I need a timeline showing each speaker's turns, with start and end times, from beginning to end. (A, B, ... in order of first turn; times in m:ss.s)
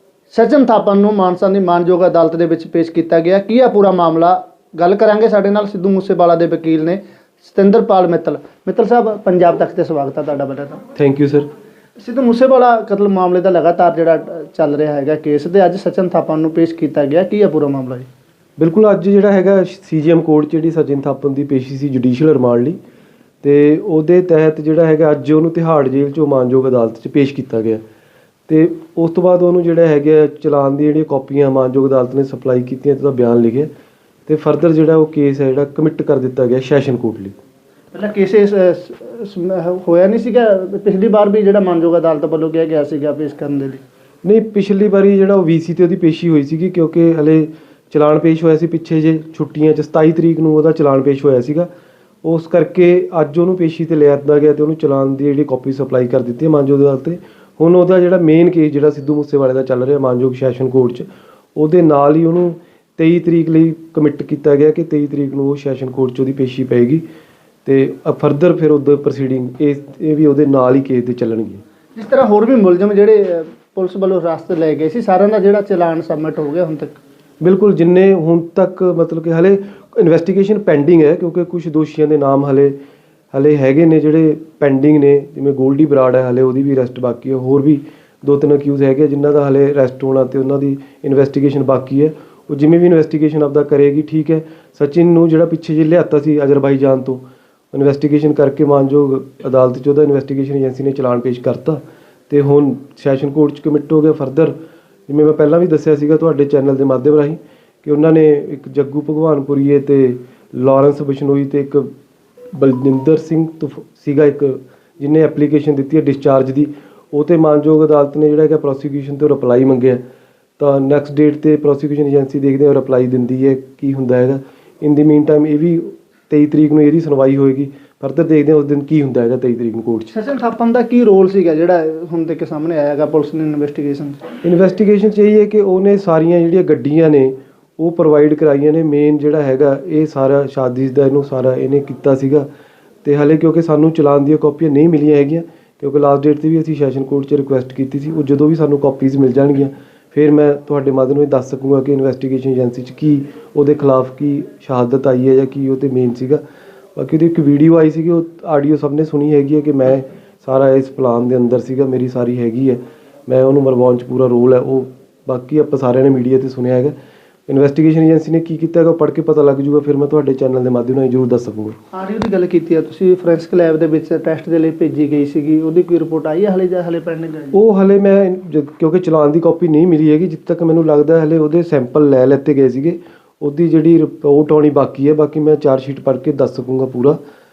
0:00.3-0:10.8 A
0:11.0-0:11.5 B
0:12.0-0:18.1 A
0:18.6-0:22.8 B
0:23.4-0:27.8 B
0:28.5-0:33.7 B
0:34.3-0:37.4 B
0:37.9-0:43.8 A
0:44.2-0:51.7 B
0:52.2-1:07.0 B
1:07.6-1:11.6 B
1:12.0-1:17.0 A
1:17.4-1:22.8 B
1:23.3-1:44.6 B
1:45.1-1:51.9 B
1:52.5-2:00.0 B
2:00.6-2:10.1 B
2:10.1-2:14.2 A
2:14.4-2:22.5 B
2:23.0-2:36.4 B
2:37.0-2:46.9 B
2:47.5-2:51.8 B
2:51.9-2:57.6 A
2:57.5-3:07.2 B